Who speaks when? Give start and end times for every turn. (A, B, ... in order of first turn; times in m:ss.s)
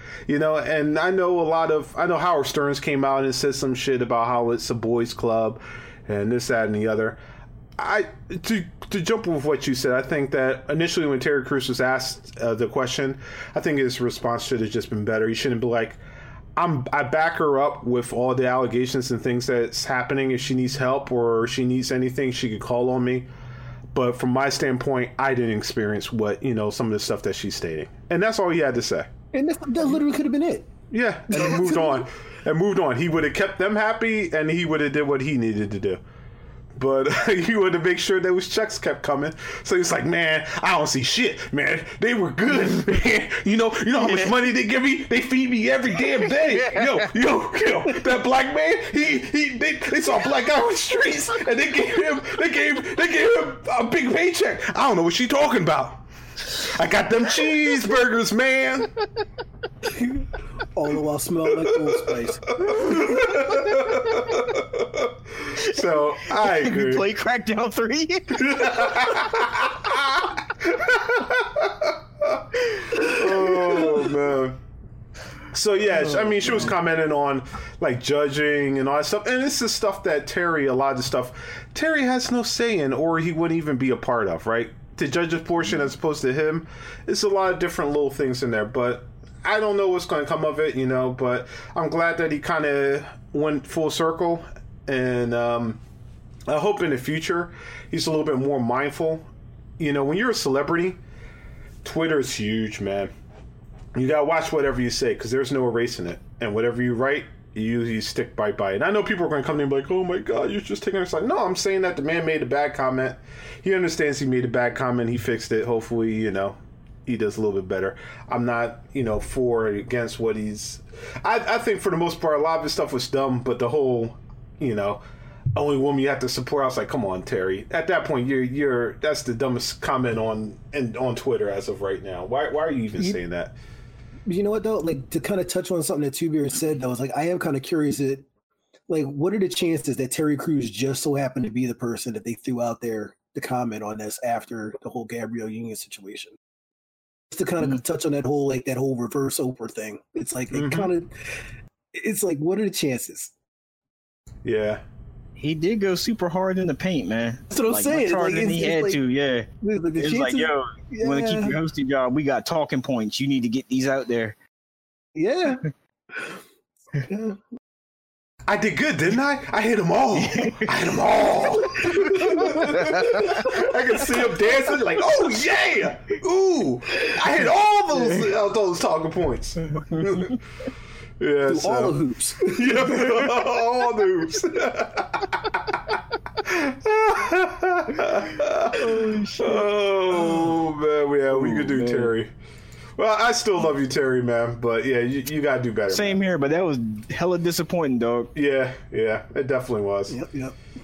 0:00.3-0:07.2 A
0:07.8-0:16.0 A
0:16.6-0:23.3 A
0:23.9-0:29.1 A
0:29.3-0:30.7 B
0:30.9-0:36.0 A
0:31.3-0:32.0 B
0:36.8-0:58.9 A
0:44.0-0:44.3 C
0:46.4-0:46.8 C
1:00.7-1:02.6 B
1:01.7-1:01.9 A
1:02.6-1:07.1 A
1:05.6-1:09.2 C
1:08.4-1:14.6 A
1:15.5-1:35.8 A
1:16.0-1:16.7 C
1:36.5-1:39.2 A
1:39.8-1:41.0 A
1:41.8-1:43.1 A
1:43.9-2:05.0 A
2:05.6-2:13.6 A
2:14.2-2:18.2 B
2:18.9-2:26.4 B
2:27.3-2:31.4 B
2:30.5-2:30.9 A
2:31.9-2:33.3 B
2:34.4-2:34.8 A
2:35.4-2:44.4 C
2:37.5-2:39.0 B
2:39.6-2:41.6 B
2:45.1-2:46.4 B
2:47.0-2:47.4 B
2:48.5-3:00.4 A
2:50.2-2:50.7 C
3:01.2-3:05.7 A
3:01.4-3:03.2 B
3:06.4-3:08.8 A
3:08.7-3:09.7 C
3:09.4-3:12.3 A
3:11.3-3:12.1 C
3:13.0-3:16.2 A
3:15.9-3:18.3 C
3:18.3-3:20.2 A
3:20.1-3:20.5 B